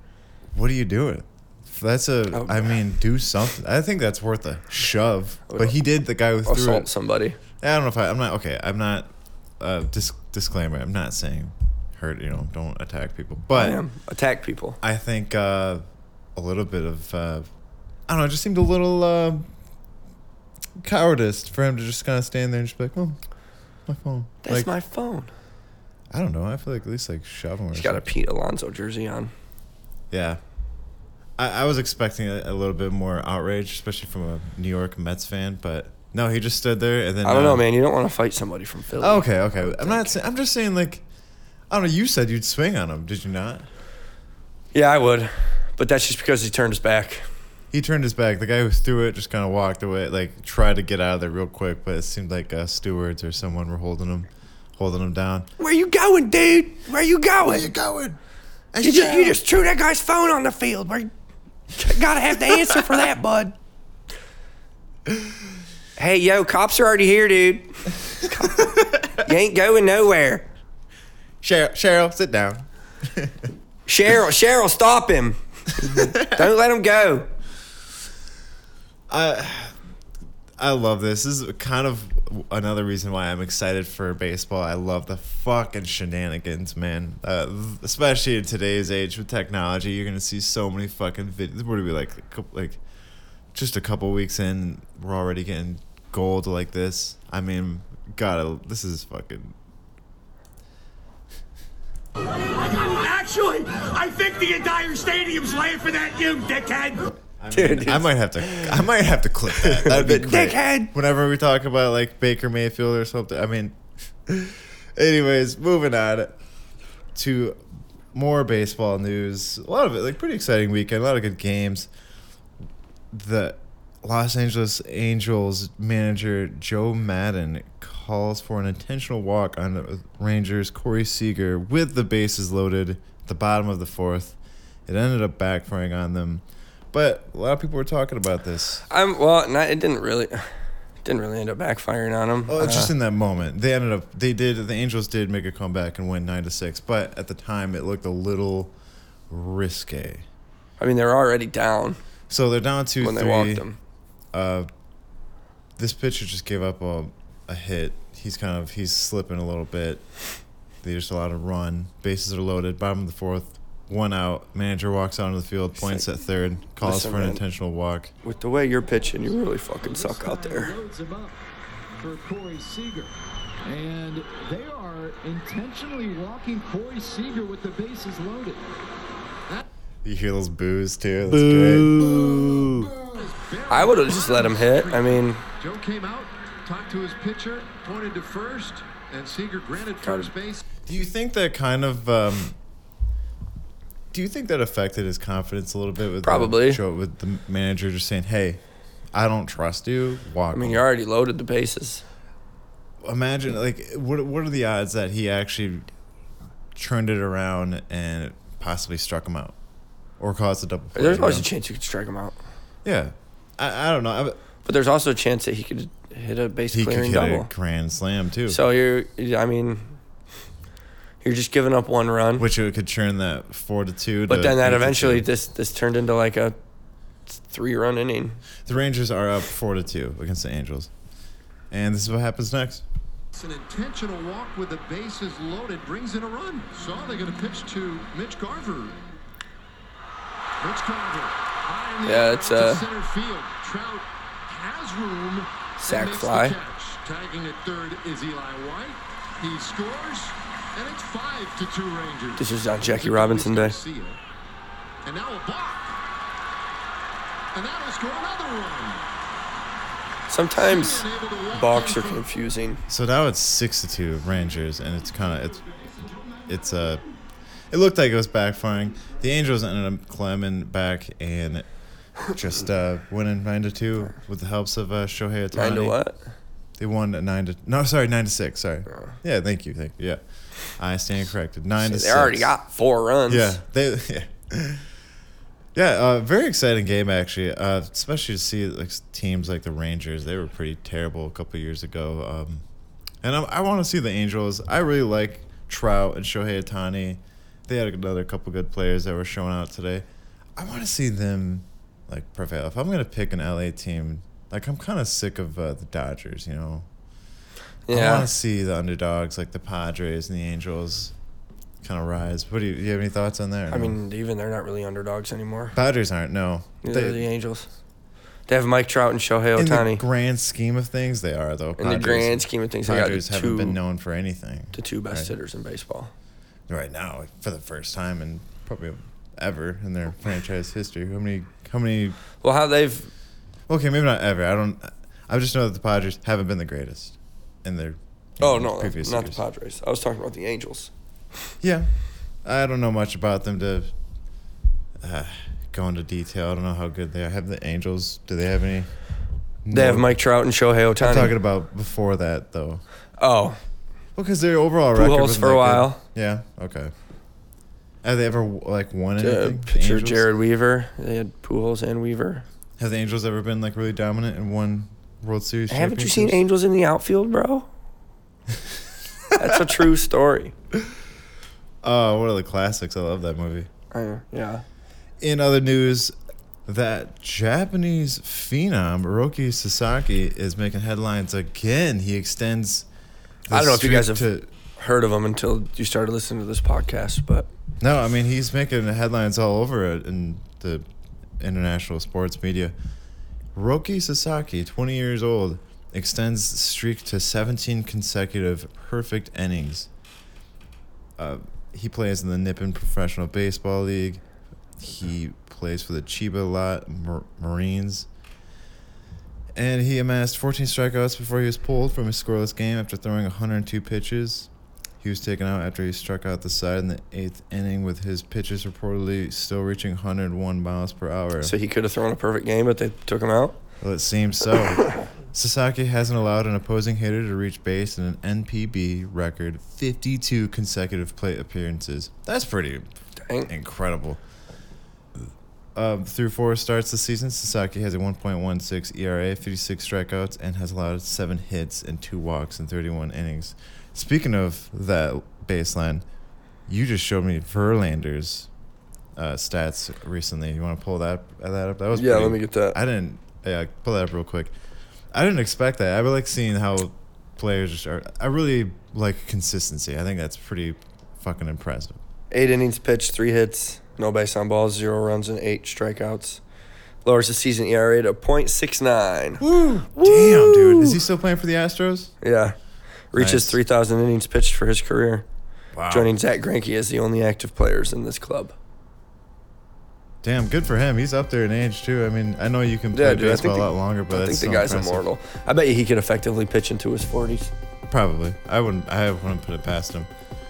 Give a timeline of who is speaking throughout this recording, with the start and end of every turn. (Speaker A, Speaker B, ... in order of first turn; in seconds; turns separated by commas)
Speaker A: 0.5-6.9, Speaker B: 2.3-2.7, Speaker B: 5.5-5.8, Speaker B: 6.4-7.4, Speaker A: 7.6-13.8, Speaker B: 13.5-14.8, Speaker A: 14.8-17.5, Speaker A: 18.1-19.5, Speaker A: 20.8-23.2, Speaker A: 23.9-24.7, Speaker B: 24.4-25.3, Speaker A: 26.1-28.1, Speaker B: 27.8-29.3, Speaker A: 30.1-30.4, Speaker A: 31.4-37.6, Speaker B: 37.2-40.2, Speaker A: 39.0-41.0, Speaker A: 41.7-43.7, Speaker B: 44.7-47.3, Speaker A: 47.7-55.5, Speaker B: 55.6-57.7, Speaker A: 57.4-58.2, Speaker A: 58.7-59.4, Speaker B: 58.8-61.1, Speaker B: 61.7-63.6, Speaker B: 66.0-70.5, Speaker A: 68.8-69.1, Speaker A: 71.4-73.5, Speaker B: 73.9-77.3, Speaker A: 75.9-76.4, Speaker A: 79.1-79.8, Speaker A: 80.6-92.8, Speaker A: 93.5-99.6, Speaker C: 102.6-107.1, Speaker A: 107.4-116.4, Speaker B: 107.5-108.8, Speaker B: 109.6-110.9, Speaker A: 117.1-117.6, Speaker A: 118.1-121.9, Speaker A: 123.1-138.9, Speaker B: 138.9-140.5, Speaker B: 141.0-142.9, Speaker A: 142.5-148.7, Speaker A: 149.3-150.2, Speaker B: 150.8-152.0, Speaker A: 152.3-153.6, Speaker B: 153.0-153.8, Speaker A: 154.3-154.7, Speaker A: 155.8-160.3, Speaker A: 160.8-168.1, Speaker B: 165.8-166.0, Speaker B: 166.8-167.4, Speaker B: 168.2-170.8, Speaker D: 169.8-171.4, Speaker D: 171.9-178.7, Speaker A: 180.0-181.9, Speaker B: 181.2-182.9, Speaker D: 182.0-183.2, Speaker E: 183.1-190.6, Speaker B: 183.7-185.4, Speaker B: 190.0-190.3, Speaker A: 190.9-192.6, Speaker A: 194.1-198.6, Speaker B: 196.2-196.8, Speaker A: 199.1-200.8, Speaker B: 200.5-202.0, Speaker A: 203.0-205.9, Speaker A: 206.8-209.6, Speaker A: 210.2-211.5, Speaker B: 210.9-212.4, Speaker A: 212.8-214.4, Speaker B: 214.6-217.5, Speaker A: 216.7-218.6, Speaker B: 218.5-220.0, Speaker B: 221.2-222.5, Speaker A: 222.4-225.2, Speaker B: 224.3-226.6, Speaker B: 227.3-228.4, Speaker A: 228.7-230.9, Speaker A: 231.7-232.8, Speaker E: 233.3-239.0, Speaker E: 240.6-254.2, Speaker B: 242.1-242.8, Speaker B: 245.8-246.6, Speaker B: 252.4-253.8, Speaker E: 255.1-255.9, Speaker E: 257.5-259.1, Speaker B: 260.3-262.8, Speaker E: 260.6-262.3, Speaker A: 262.9-265.7, Speaker A: 266.5-267.0, Speaker A: 267.7-276.1, Speaker B: 275.5-276.2, Speaker A: 276.8-282.6, Speaker B: 281.8-283.6, Speaker A: 283.3-284.9, Speaker A: 285.8-292.6, Speaker A: 293.2-300.1, Speaker A: 300.6-306.9, Speaker B: 307.9-308.3, Speaker A: 307.9-311.1, Speaker A: 311.8-313.9, Speaker B: 313.7-315.7, Speaker A: 315.7-317.2, Speaker B: 316.8-317.7, Speaker B: 318.5-320.0, Speaker A: 319.6-325.3, Speaker B: 321.8-323.8, Speaker B: 324.7-326.1, Speaker A: 326.7-332.2, Speaker B: 332.4-333.1, Speaker A: 333.7-339.4, Speaker B: 338.4-340.9, Speaker A: 341.6-343.9, Speaker A: 345.0-350.2, Speaker B: 349.7-351.3, Speaker A: 351.0-352.8, Speaker B: 353.2-353.6, Speaker A: 354.1-356.9, Speaker B: 354.9-356.0, Speaker A: 358.0-360.3, Speaker B: 359.2-362.4, Speaker A: 362.8-366.4, Speaker B: 365.7-367.7, Speaker B: 369.3-370.5, Speaker A: 371.8-373.7, Speaker B: 373.9-374.6, Speaker A: 375.2-376.1, Speaker A: 376.7-382.9, Speaker A: 383.5-384.5, Speaker B: 383.5-387.5, Speaker A: 387.8-390.8, Speaker A: 391.4-392.7, Speaker A: 393.6-399.9, Speaker A: 401.2-404.2, Speaker A: 404.8-408.1, Speaker A: 409.6-414.5, Speaker A: 415.0-421.5, Speaker B: 421.4-423.6, Speaker A: 423.8-432.9, Speaker B: 433.2-433.5, Speaker A: 433.5-434.2, Speaker A: 435.7-446.0, Speaker A: 446.7-448.5, Speaker A: 449.2-454.6, Speaker B: 451.9-452.8, Speaker A: 455.1-462.0, Speaker B: 462.3-466.4, Speaker B: 467.1-469.4, Speaker A: 469.4-472.2, Speaker B: 469.9-471.0, Speaker B: 472.2-472.6, Speaker B: 473.1-475.3, Speaker A: 473.1-473.6, Speaker A: 475.7-476.1, Speaker B: 475.9-478.6, Speaker A: 480.2-485.1, Speaker B: 482.9-487.5, Speaker A: 487.9-490.1